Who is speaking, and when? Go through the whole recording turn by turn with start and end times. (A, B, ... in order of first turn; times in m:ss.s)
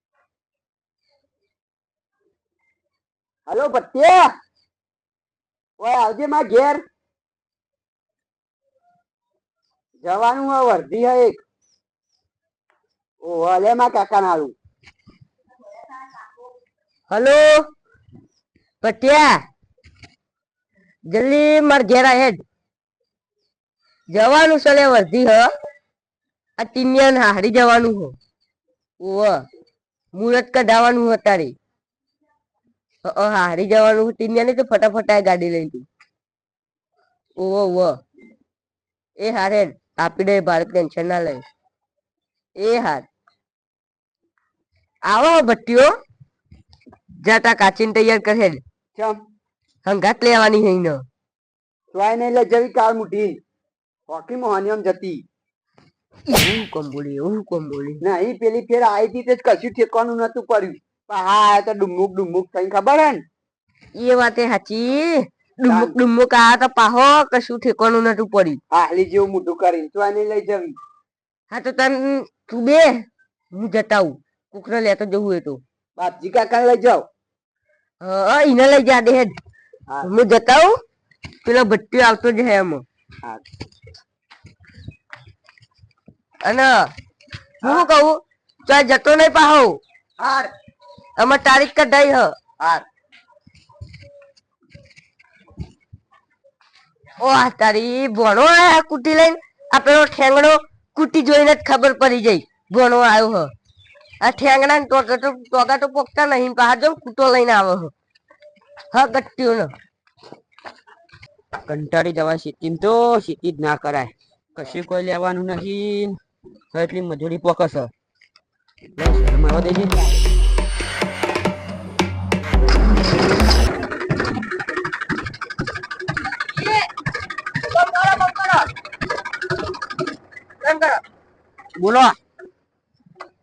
0:03.5-0:04.4 A
0:05.8-0:06.8 A
0:10.0-0:11.4 A
0:13.2-0:14.5 A
0:17.1-0:17.7 B
0:18.8-0:19.4 B
0:21.1-0:22.4 B
0:24.1-0:25.5 B
0:26.6-0:28.1 B
0:29.0-0:29.4 B
0:30.1-0:31.5 B
0:33.0-0:35.8 B
0:37.4-0:38.0 B
0:39.2-0:41.4 B
0:42.6-0:43.0 B
0:45.0-0:45.9 B
0:47.2-0:48.6 B
0:48.9-0:49.2 A
0:49.8-0:51.0 B
0:51.9-0:53.4 A
0:54.1-0:55.2 A
0:56.3-0:58.0 B
0:58.0-1:03.2 A
1:04.0-1:08.6 B
1:05.7-1:06.0 A
1:08.7-1:10.8 A
1:11.5-1:15.6 B
1:16.0-1:17.1 A
1:18.0-1:19.4 B
1:20.0-1:20.8 B
1:21.4-1:22.8 B
1:26.4-1:26.9 B
1:27.6-1:29.8 B
1:30.2-1:30.5 A
1:31.2-1:32.3 B
1:32.6-1:32.8 A
1:37.2-1:43.5 B
1:44.2-1:47.9 B
1:48.9-1:49.7 B
1:51.7-1:56.2 C
1:56.7-1:57.9 C
1:59.0-2:00.2 C
2:06.5-2:06.9 B
2:07.6-2:08.7 B
2:10.6-2:11.0 B
2:11.8-2:12.2 C